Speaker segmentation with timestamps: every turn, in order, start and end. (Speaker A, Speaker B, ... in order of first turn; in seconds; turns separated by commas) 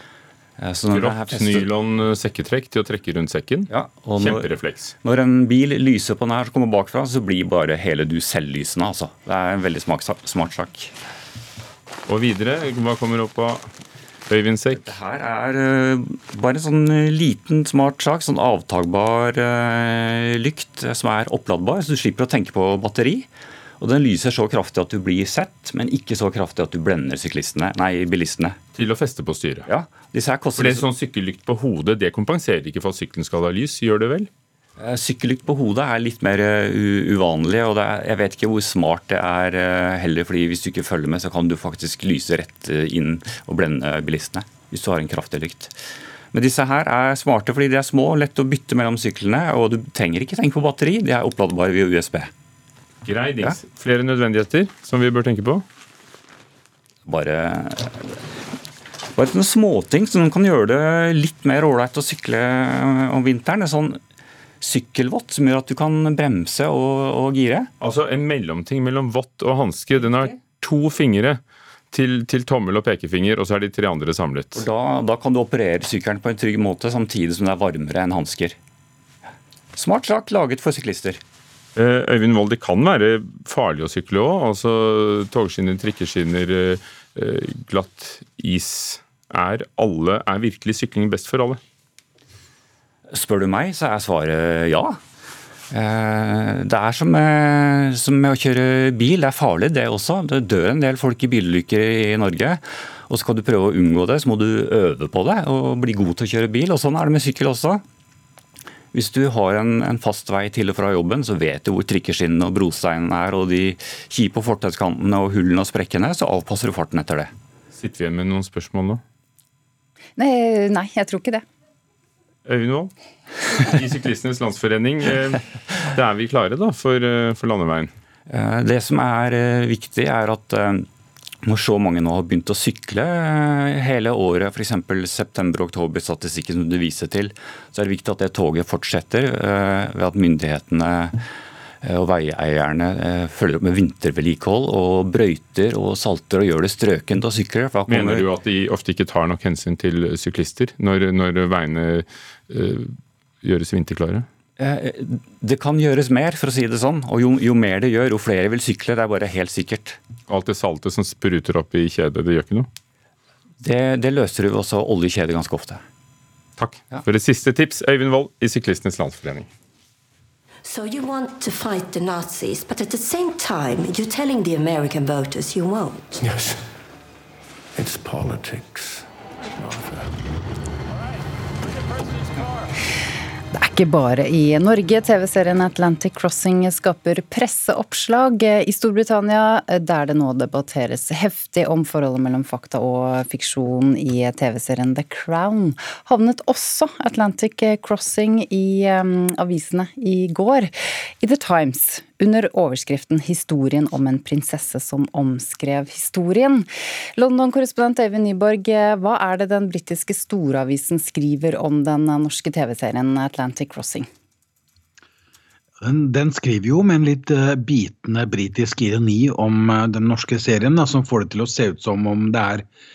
Speaker A: 0.6-1.6, Speaker B: 0.9-4.9, Speaker A: 3.7-4.5, Speaker A: 5.0-10.9, Speaker B: 12.1-13.6, Speaker B: 14.3-14.9, Speaker A: 14.7-23.3, Speaker A: 23.8-28.6, Speaker B: 28.7-29.7, Speaker A: 29.7-30.8, Speaker B: 30.6-34.3, Speaker A: 34.8-45.8, Speaker A: 46.3-52.3, Speaker B: 53.0-55.6, Speaker A: 57.0-58.2, Speaker A: 59.1-64.0, Speaker A: 64.6-67.7, Speaker B: 67.8-71.4, Speaker B: 71.9-74.6, Speaker A: 74.5-78.6, Speaker A: 79.8-81.2, Speaker B: 81.8-91.6, Speaker A: 93.1-95.0, Speaker A: 95.7-107.8, Speaker A: 108.9-117.3, Speaker B: 117.7-119.0, Speaker C: 120.2-121.4, Speaker B: 122.5-122.9, Speaker B: 123.4-127.9, Speaker A: 128.3-130.9, Speaker A: 131.4-141.2, Speaker A: 141.8-148.2, Speaker B: 147.9-154.2, Speaker A: 154.6-160.0, Speaker B: 160.3-162.7, Speaker A: 163.6-165.8, Speaker B: 166.6-169.5, Speaker D: 170.6-176.5, Speaker D: 177.8-178.8, Speaker D: 179.6-180.0, Speaker C: 183.5-214.1, Speaker E: 215.8-222.6